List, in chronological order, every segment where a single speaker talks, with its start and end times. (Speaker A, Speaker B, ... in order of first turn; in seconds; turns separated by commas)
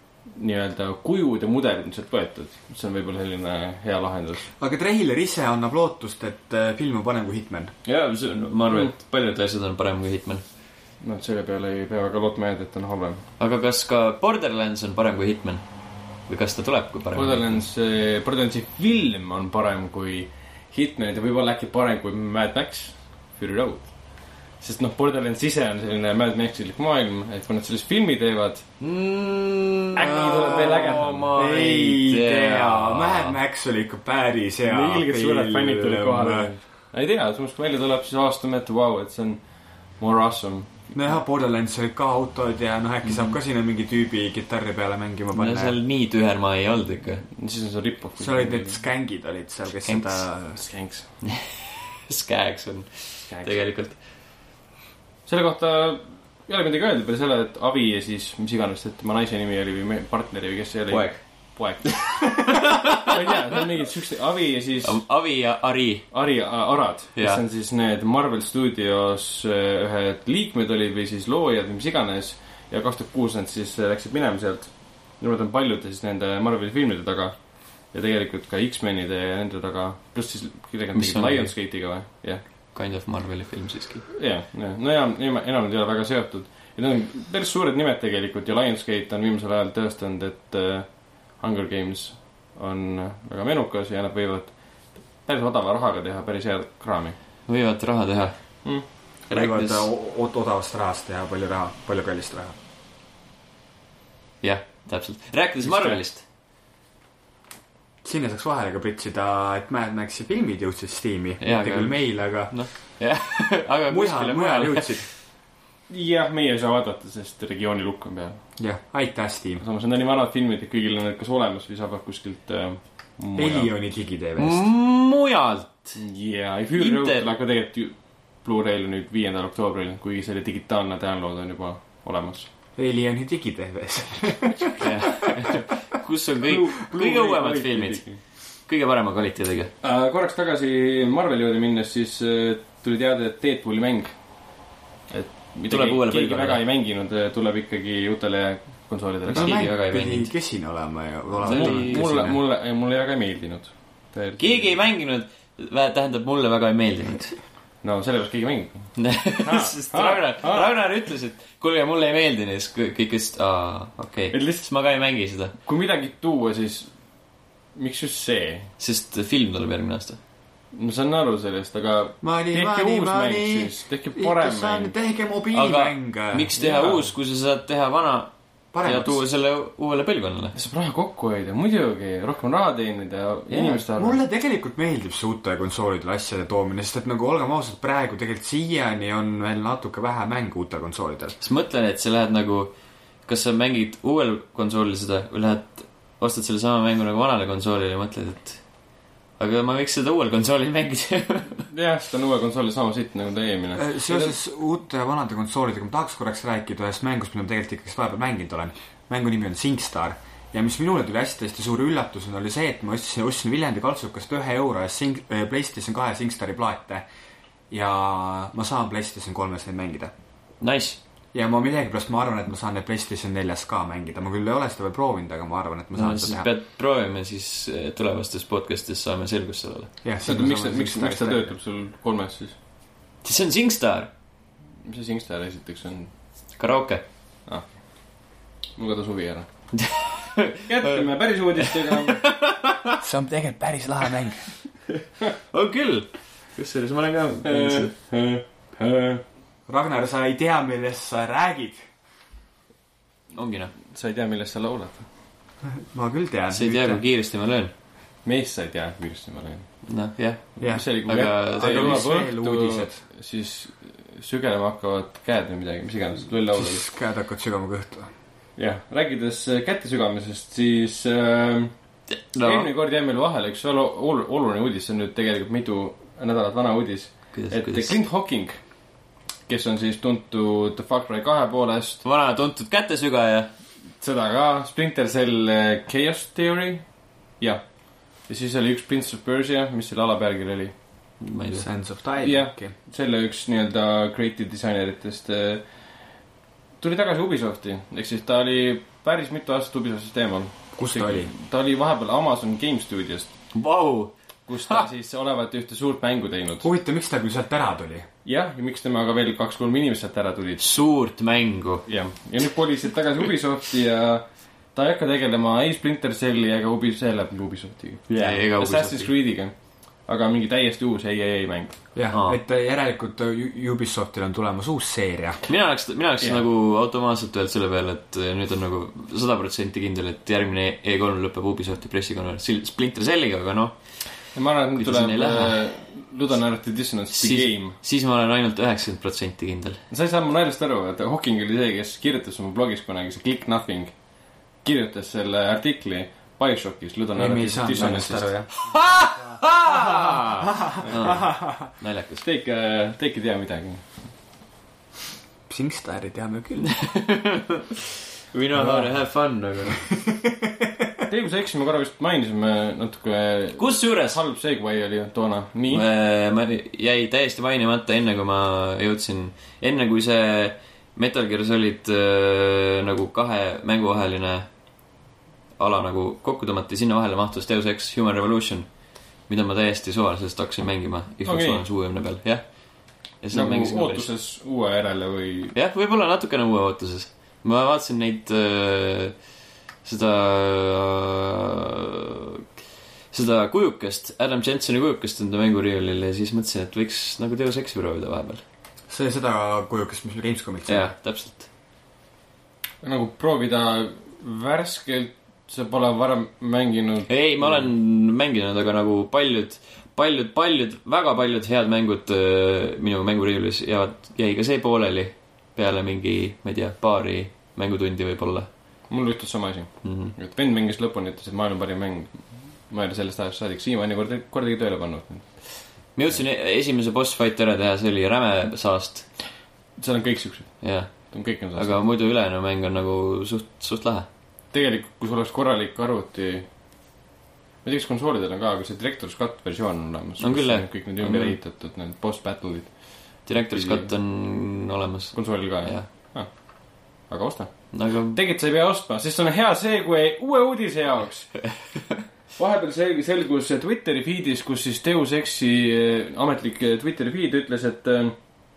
Speaker A: 0.3-4.5, Speaker B: 4.6-7.7, Speaker C: 7.9-10.4, Speaker A: 11.0-13.2, Speaker C: 13.4-15.6, Speaker C: 16.3-17.5, Speaker A: 17.1-24.0, Speaker A: 24.6-28.7, Speaker C: 28.8-33.4, Speaker A: 30.0-31.3, Speaker B: 31.3-36.5, Speaker A: 34.6-40.9, Speaker B: 40.9-45.8, Speaker C: 45.3-47.2, Speaker A: 47.3-48.8, Speaker B: 48.2-50.6, Speaker C: 49.9-50.2, Speaker A: 50.6-51.1, Speaker C: 51.2-54.0, Speaker A: 53.3-53.7, Speaker A: 55.3-65.0, Speaker C: 60.9-61.2, Speaker C: 62.3-63.1, Speaker C: 64.8-66.1, Speaker A: 66.1-82.4, Speaker C: 67.2-67.4, Speaker C: 81.0-81.5, Speaker C: 82.7-84.0, Speaker A: 84.1-97.2, Speaker C: 97.5-98.4, Speaker C: 99.3-99.9, Speaker B: 99.3-102.6, Speaker C: 104.4-106.2, Speaker A: 105.6-106.0, Speaker B: 108.0-112.6, Speaker C: 111.4-115.0, Speaker B: 113.9-115.1, Speaker A: 115.9-118.4, Speaker B: 118.6-119.6, Speaker A: 119.6-123.7, Speaker B: 123.4-124.7, Speaker C: 124.4-126.0, Speaker A: 126.0-132.5, Speaker C: 126.8-127.3, Speaker B: 132.8-135.4, Speaker C: 134.8-138.0, Speaker A: 136.4-138.2, Speaker C: 138.7-139.7, Speaker A: 139.8-144.2, Speaker A: 145.1-149.6, Speaker C: 145.7-146.6, Speaker B: 149.3-152.4, Speaker C: 149.3-150.3, Speaker A: 151.4-154.8, Speaker C: 151.4-152.1, Speaker C: 154.4-157.4, Speaker A: 157.8-160.7, Speaker C: 159.0-165.5, Speaker A: 164.3-164.7, Speaker A: 165.7-166.9, Speaker A: 167.8-168.7, Speaker C: 168.8-170.2, Speaker A: 170.7-174.9, Speaker B: 172.2-176.5, Speaker C: 175.5-178.3, Speaker A: 176.6-177.1, Speaker B: 178.7-179.2, Speaker C: 178.8-180.6, Speaker A: 180.6-184.2, Speaker C: 183.5-183.8, Speaker B: 183.9-191.4, Speaker C: 191.4-192.7, Speaker C: 193.2-198.6, Speaker C: 199.4-201.7, Speaker A: 201.7-204.3, Speaker B: 203.8-217.0, Speaker B: 217.7-220.1, Speaker C: 220.6-221.0, Speaker B: 221.3-226.5, Speaker C: 225.9-229.9, Speaker B: 230.0-231.5, Speaker A: 230.2-232.5, Speaker C: 233.2-234.1, Speaker A: 234.8-236.1, Speaker C: 236.6-237.0, Speaker A: 237.5-237.8, Speaker A: 238.8-239.5, Speaker C: 239.8-241.0, Speaker A: 240.7-242.3, Speaker C: 241.9-243.0, Speaker B: 243.0-244.5, Speaker C: 245.5-247.9, Speaker A: 247.5-249.2, Speaker B: 249.7-251.8, Speaker C: 253.3-253.7, Speaker A: 253.9-255.1, Speaker B: 255.7-257.0, Speaker C: 256.5-257.7, Speaker A: 258.2-259.7, Speaker C: 259.9-262.0, Speaker A: 260.6-266.9, Speaker B: 260.6-263.0, Speaker B: 266.5-268.1, Speaker A: 268.6-271.7, Speaker C: 272.1-272.7, Speaker A: 272.4-278.6, Speaker C: 277.3-278.0, Speaker A: 279.5-282.1, Speaker C: 282.0-283.5, Speaker A: 284.0-286.8, Speaker A: 287.4-290.7, Speaker C: 291.2-291.6, Speaker B: 291.5-292.7, Speaker A: 292.2-295.6, Speaker A: 296.8-303.3, Speaker B: 300.8-301.3, Speaker C: 303.5-304.1, Speaker A: 304.5-306.7, Speaker B: 306.6-308.1, Speaker A: 308.2-310.7, Speaker C: 310.6-311.9, Speaker A: 311.9-319.5, Speaker C: 318.1-319.1, Speaker A: 320.1-321.8, Speaker B: 321.9-325.4, Speaker C: 322.1-322.4, Speaker C: 325.5-333.8, Speaker A: 334.4-337.8, Speaker C: 334.8-335.6, Speaker C: 337.1-339.8, Speaker A: 339.9-343.9, Speaker A: 344.6-348.4, Speaker B: 347.1-349.1, Speaker C: 348.6-352.2, Speaker B: 349.6-351.6, Speaker A: 352.2-353.8, Speaker B: 355.5-356.7, Speaker C: 356.6-359.8, Speaker B: 358.5-358.9, Speaker B: 359.8-361.0, Speaker A: 361.1-365.9, Speaker C: 363.6-364.2, Speaker C: 365.7-374.5, Speaker C: 375.6-378.7, Speaker C: 379.3-382.4, Speaker A: 381.2-381.6, Speaker C: 383.2-384.1, Speaker A: 383.3-385.5, Speaker C: 385.5-389.1, Speaker C: 389.8-392.4, Speaker C: 393.1-398.4, Speaker B: 398.9-400.9, Speaker C: 400.7-401.5, Speaker A: 402.8-407.7, Speaker C: 407.1-418.5, Speaker A: 418.9-425.4, Speaker C: 419.8-420.1, Speaker C: 425.9-429.1, Speaker A: 429.8-431.8, Speaker C: 430.6-434.1, Speaker A: 434.5-436.5, Speaker A: 437.6-443.9, Speaker C: 440.2-441.4, Speaker C: 443.2-445.9, Speaker A: 445.1-451.5, Speaker C: 447.7-448.2, Speaker A: 452.4-458.2